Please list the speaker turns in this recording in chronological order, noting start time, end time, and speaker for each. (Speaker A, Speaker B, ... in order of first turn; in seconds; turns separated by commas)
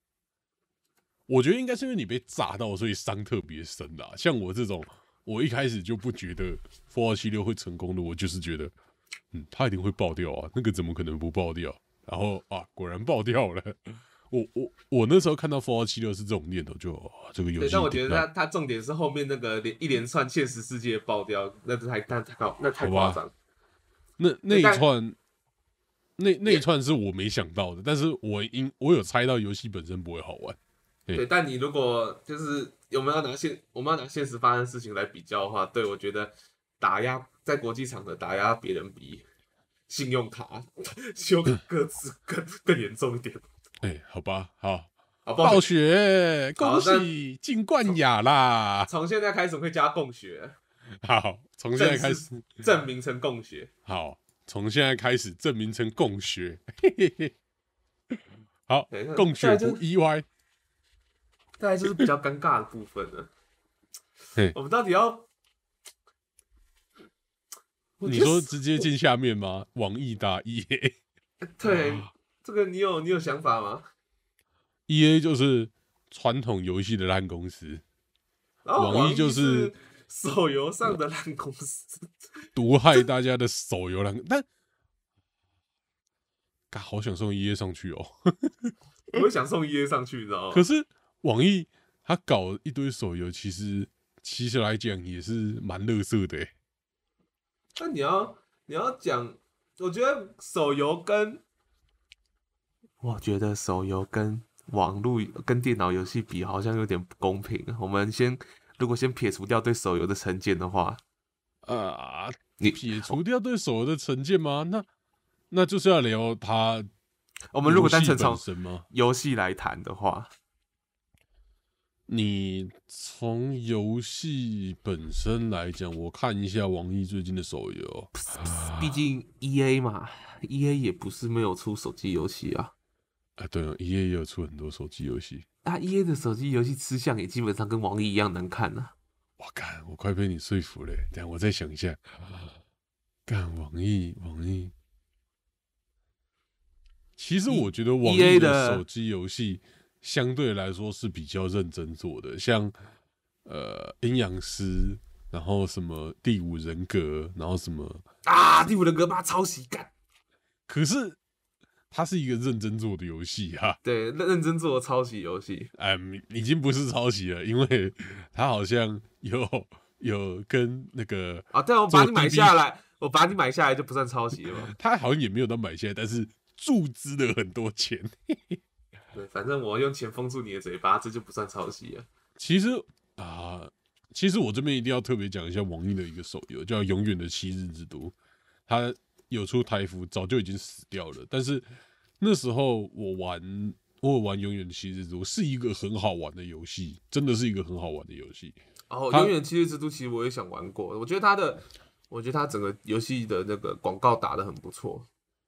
Speaker A: 1.3-8.7, Speaker A: 9.3-18.2, Speaker B: 17.6-23.3, Speaker A: 22.8-23.2, Speaker A: 24.2-25.2, Speaker B: 24.5-24.8, Speaker A: 26.2-31.2, Speaker B: 31.1-39.2, Speaker B: 39.9-43.4, Speaker A: 43.8-44.9, Speaker B: 45.2-45.7, Speaker A: 45.4-48.9, Speaker B: 46.6-47.1, Speaker B: 48.9-50.5, Speaker A: 51.0-52.4, Speaker B: 51.8-53.7, Speaker A: 53.9-57.3, Speaker A: 58.1-60.2, Speaker B: 58.9-59.8, Speaker B: 61.6-63.3, Speaker B: 64.5-65.3, Speaker B: 68.0-68.8, Speaker A: 68.0-70.9, Speaker B: 71.5-73.9, Speaker A: 74.9-77.8, Speaker B: 78.6-82.4, Speaker A: 78.8-79.7, Speaker A: 82.5-84.4, Speaker A: 86.7-88.7, Speaker B: 89.1-90.6, Speaker A: 90.5-96.5, Speaker B: 97.8-101.4, Speaker B: 103.0-111.0, Speaker A: 111.6-114.8, Speaker B: 112.6-113.2, Speaker A: 115.5-116.9, Speaker B: 117.5-120.3, Speaker A: 117.6-118.8, Speaker A: 122.1-128.8, Speaker B: 128.1-132.7, Speaker A: 133.4-135.4, Speaker B: 135.6-138.9, Speaker A: 139.4-142.5, Speaker A: 143.3-144.7, Speaker A: 147.2-152.7, Speaker B: 147.5-148.8, Speaker A: 153.4-158.0, Speaker B: 158.2-159.9, Speaker A: 160.7-161.2, Speaker A: 161.9-163.8, Speaker B: 163.8-165.7, Speaker A: 165.8-172.6, Speaker B: 171.5-174.7, Speaker A: 174.7-178.6, Speaker B: 179.1-182.1, Speaker A: 182.4-188.1, Speaker A: 188.7-191.6, Speaker A: 192.2-198.6, Speaker B: 198.9-205.1